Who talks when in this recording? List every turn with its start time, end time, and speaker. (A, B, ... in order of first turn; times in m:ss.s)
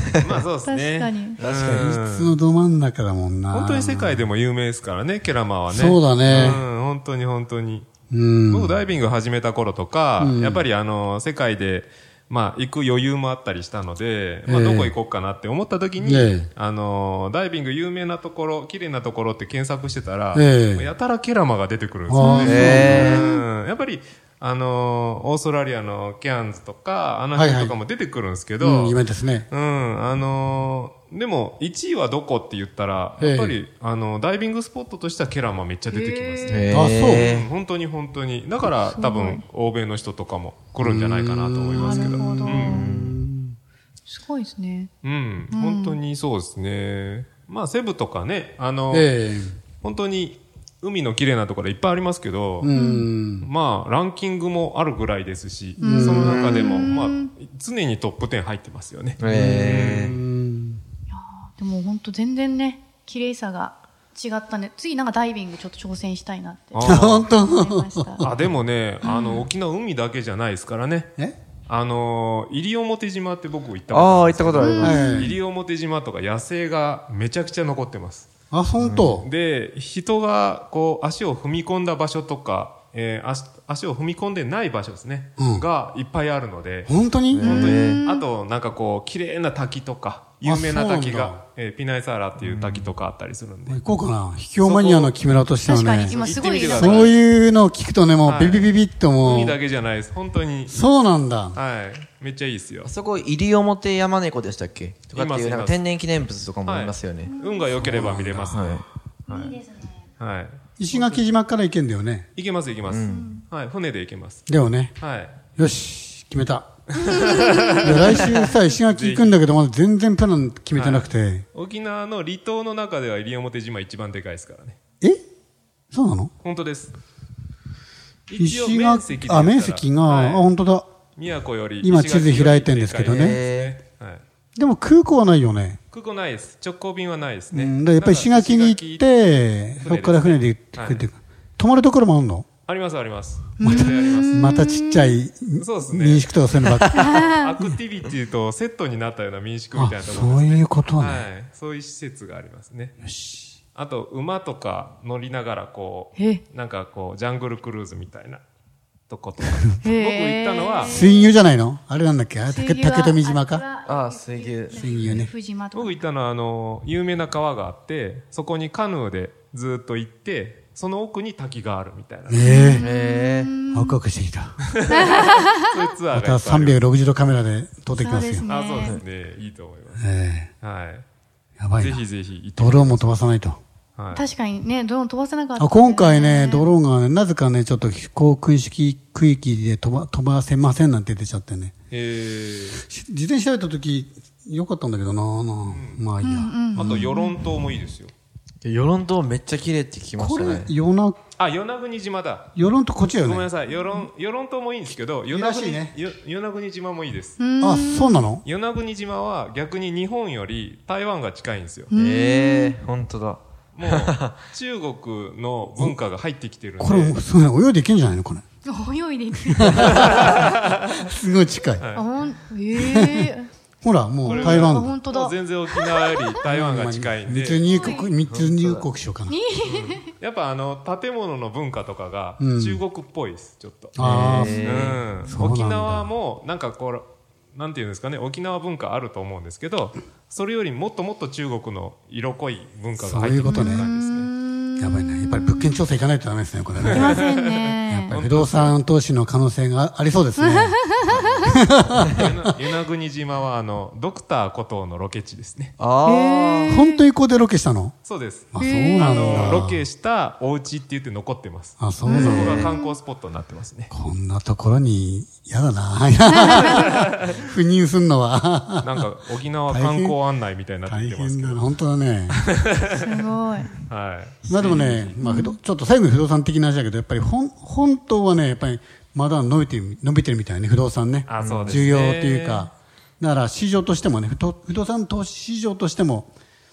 0:00.2-0:02.4 A
0:00.6-0:01.4 B
0:01.4-0:02.0 C
0:01.6-0:04.3 D
0:03.5-0:07.9 A
0:05.7-0:06.6 D
0:08.1-0:08.8 D
0:08.5-0:29.0 A
0:10.2-0:10.7 D
0:14.4-0:15.0 D
0:16.0-0:16.5 D
0:20.3-0:20.9 D
0:22.1-0:23.2 D
0:22.2-0:23.3 B
0:22.4-0:23.3 C
0:27.3-0:27.7 D
0:28.6-0:29.5 D
0:29.5-0:42.9 A
0:33.2-0:33.6 D
0:35.9-0:36.7 B
0:36.5-0:37.5 C
0:36.7-0:37.4 D
0:38.7-0:39.4 B
0:40.8-0:43.6 D
0:41.8-0:42.9 B
0:42.6-0:43.2 C
0:44.1-0:44.9 B
0:45.0-0:49.1 A
0:45.5-0:46.0 B
0:48.9-0:49.6 D
0:49.8-0:52.7 A
0:52.6-0:53.5 D
0:52.7-0:53.1 B
0:53.4-1:00.2 A
0:55.8-0:57.3 B
0:55.8-0:56.6 D
0:59.2-1:00.2 C
0:59.2-1:00.8 D
1:01.1-1:08.2 B
1:06.7-1:07.3 A
1:06.8-1:08.5 D
1:08.2-1:11.1 A
1:09.0-1:09.4 B
1:11.7-1:18.3 A
1:13.9-1:15.0 C
1:14.6-1:15.4 B
1:14.8-1:15.4 D
1:18.5-1:19.3 D
1:18.8-1:19.2 C
1:19.1-1:33.8 A
1:25.4-1:25.6 D
1:26.9-1:27.7 D
1:27.3-1:28.0 C
1:27.4-1:28.3 B
1:30.4-1:31.4 D
1:32.4-1:32.9 C
1:33.7-1:39.6 D
1:34.6-1:35.2 A
1:35.6-1:37.2 B
1:36.1-1:37.2 A
1:38.2-1:40.8 A
1:40.7-1:41.6 D
1:41.6-1:42.9 A
1:42.8-1:48.8 C
1:45.1-1:45.8 A
1:46.6-1:49.6 A
1:47.2-1:47.8 B
1:49.3-1:49.9 B
1:50.2-1:51.2 A
1:50.8-1:52.3 D
1:52.4-1:54.4 A
1:52.9-1:53.4 C
1:53.1-1:53.4 B
1:54.5-1:55.0 D
1:55.0-1:55.4 A
1:55.6-2:01.5 D
1:56.9-1:59.4 A
2:00.7-2:04.8 A
2:05.9-2:06.3 D
2:06.4-2:06.9 A
2:08.3-2:10.5 A
2:08.4-2:10.9 D
2:11.2-2:14.2 A
2:11.8-2:13.4 D
2:13.0-2:13.8 C
2:14.6-2:15.8 D
2:15.9-2:19.1 A
2:17.5-2:22.5 D
2:19.8-2:21.1 A
2:22.7-2:24.5 A
2:23.6-2:25.2 B
2:23.6-2:27.8 D
2:25.6-2:26.3 A
2:26.8-2:33.0 A
2:26.9-2:27.5 B
2:29.7-2:31.3 D
2:33.0-2:33.6 D
2:33.8-2:38.4 A
2:36.2-2:36.4 B
2:39.1-2:41.0 A
2:39.8-2:41.4 B
2:40.8-2:43.6 D
2:42.4-2:46.0 B
2:43.9-2:45.3 C
2:44.8-2:45.3 D
2:45.7-2:52.5 A
2:52.3-2:52.9 D
2:52.4-2:54.0 B
2:52.8-2:53.5 C
2:53.7-2:54.6 D
2:54.7-2:56.8 A
2:54.9-2:55.6 B
2:56.1-2:58.5 D
2:57.9-2:59.0 B
2:58.5-3:00.0 A
3:00.0-3:00.5 D
3:00.6-3:01.0 A
3:01.6-3:02.0 D
3:01.8-3:03.2 A
3:02.6-3:03.6 D
3:04.0-3:04.2 A
3:04.1-3:06.7 B
3:05.6-3:11.7 D
3:11.9-3:12.8 A
3:12.8-3:17.1 D
3:15.7-3:16.0 A
3:16.2-3:17.4 B
3:16.8-3:18.1 A
3:18.6-3:20.7 C
3:20.2-3:21.2 D
3:21.4-3:27.4 A
3:22.6-3:23.5 D
3:25.3-3:26.0 D
3:27.4-3:28.3 B
3:27.6-3:28.4 D
3:28.4-3:31.9 A
3:31.9-3:32.8 B
3:32.0-3:34.3 C
3:33.8-3:37.2 A
3:36.8-3:38.4 D
3:38.6-3:40.2 B
3:39.5-3:41.9 D
3:40.0-3:41.0 A
3:41.8-3:42.1 A
3:42.0-3:43.5 B
3:42.8-3:45.0 D
3:44.2-3:46.3 B
3:44.3-3:47.6 A
3:46.4-3:49.4 D
3:47.7-3:48.1 B
3:48.3-3:48.9 C
3:49.3-3:50.1 B
3:49.7-4:04.3 A
3:52.4-3:52.8 D
3:54.0-3:56.1 D
3:54.0-3:55.0 C
4:03.0-4:03.9 D
4:03.5-4:05.9 B
4:04.8-4:07.3 D
4:06.9-4:08.2 B
4:06.9-4:07.5 A
4:07.9-4:12.3 D
4:08.1-4:08.8 A
4:10.4-4:11.3 B
4:11.0-4:12.3 C
4:11.9-4:15.8 A
4:15.8-4:16.8 C
4:16.0-4:17.0 B
4:16.7-4:18.0 D
4:18.0-4:23.9 A
4:18.5-4:19.8 D
4:18.6-4:19.6 B
4:21.8-4:22.7 D
4:22.1-4:22.9 B
4:22.2-4:22.7 C
4:23.9-4:29.0 D
4:26.5-4:27.4 A
4:28.8-4:31.7 A
4:29.7-4:30.2 D
4:30.9-4:32.4 D
4:32.4-4:33.0 A
4:33.0-4:33.7 B
4:33.9-4:35.2 A
4:34.5-4:46.3 D
4:34.6-4:35.6 B
4:41.3-4:42.7 A
4:41.4-4:41.9 C